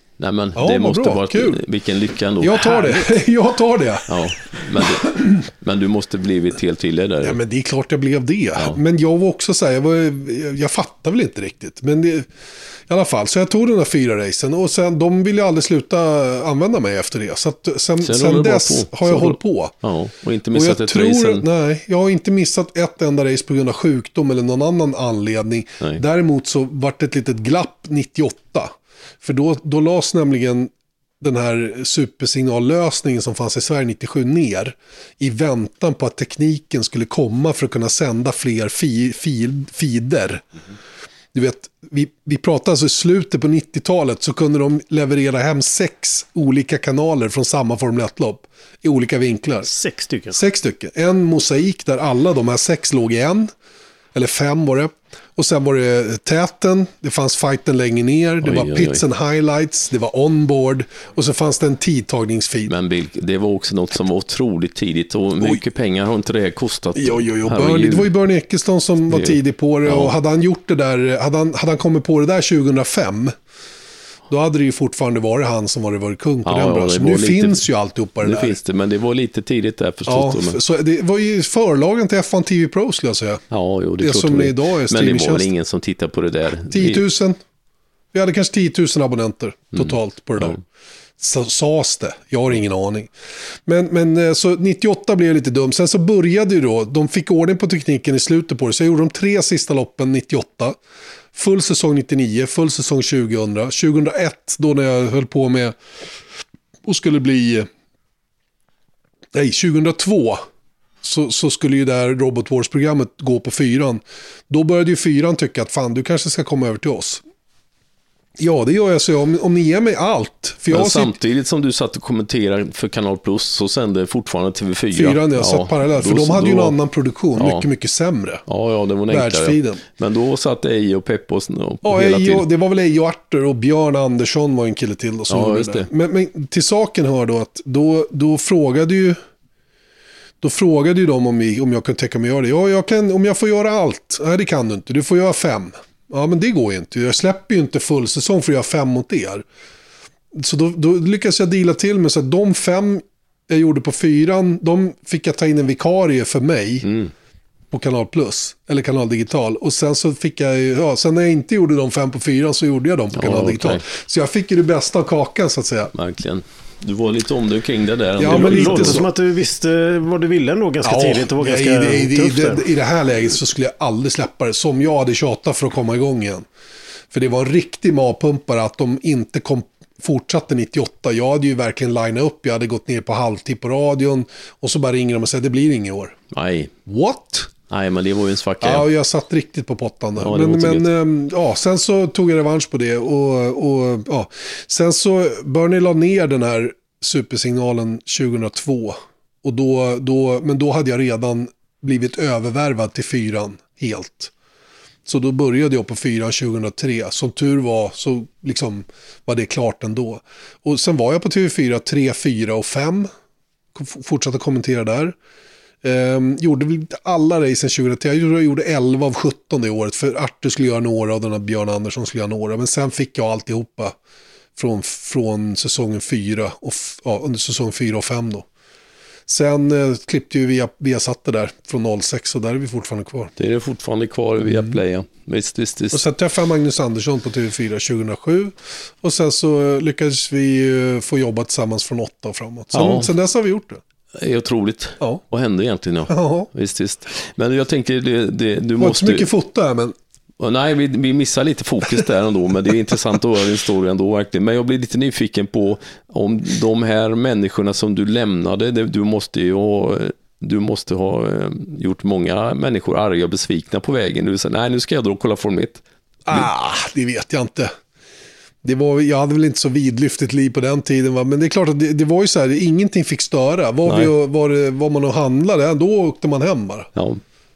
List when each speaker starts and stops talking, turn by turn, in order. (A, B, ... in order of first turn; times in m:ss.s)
0:00.2-0:03.1 A
0:00.6-0:01.6 B
0:02.4-0:04.2 B
0:04.1-0:07.4 A
0:04.8-0:05.1 B
0:07.2-0:12.3 B
0:12.9-0:19.7 B
0:18.0-0:21.4 A
0:20.5-0:40.4 B
0:41.3-0:49.7 B
0:49.7-0:50.4 C
0:50.3-0:53.5 B
0:54.1-1:02.7 B
0:58.4-0:59.0 A
1:02.7-1:08.1 A
1:06.9-1:13.3 B
1:09.1-1:10.1 A
1:14.3-1:18.6 B
1:16.4-1:17.6 A
1:18.2-1:20.6 A
1:20.1-1:23.4 B
1:23.5-1:27.0 A
1:24.0-1:25.5 B
1:26.7-1:27.4 B
1:28.1-1:30.6 B
1:29.8-1:30.6 A
1:31.2-1:33.1 B
1:33.6-1:40.8 B
1:41.3-1:45.8 B
1:46.8-1:47.7 B
1:49.3-1:50.4 B
1:51.0-1:57.2 B
1:58.4-2:01.2 B
2:00.7-2:06.8 A
2:04.9-2:08.4 B
2:07.4-2:07.6 A
2:08.4-2:12.5 A
2:09.1-2:09.8 B
2:11.8-2:19.2 B
2:15.3-2:15.9 A
2:20.4-2:29.4 B
2:30.3-2:36.9 B
2:36.8-2:37.1 A
2:37.7-2:45.9 B
2:43.1-2:43.8 A
2:45.9-2:49.0 A
2:48.2-2:49.1 B
2:48.2-2:52.6 C
2:50.8-2:56.5 B
2:57.1-3:06.2 B
3:06.3-3:06.7 A
3:06.8-3:07.5 B
3:07.7-3:08.9 A
3:08.6-3:24.3 B
3:10.2-3:10.9 A
3:25.0-3:33.1 B
3:33.7-3:35.2 B
3:35.8-3:43.9 B
3:44.6-3:48.4 B
3:49.3-3:53.3 B
3:53.4-3:56.0 A
3:54.4-3:54.8 B
3:55.9-4:03.8 B
4:02.7-4:03.1 A
4:04.1-4:09.3 A
4:06.1-4:06.5 B
4:08.8-4:09.9 B
4:10.4-4:26.4 A
4:26.2-4:27.7 B
4:28.6-4:36.9 B
4:33.8-4:34.1 A
4:36.9-4:37.2 A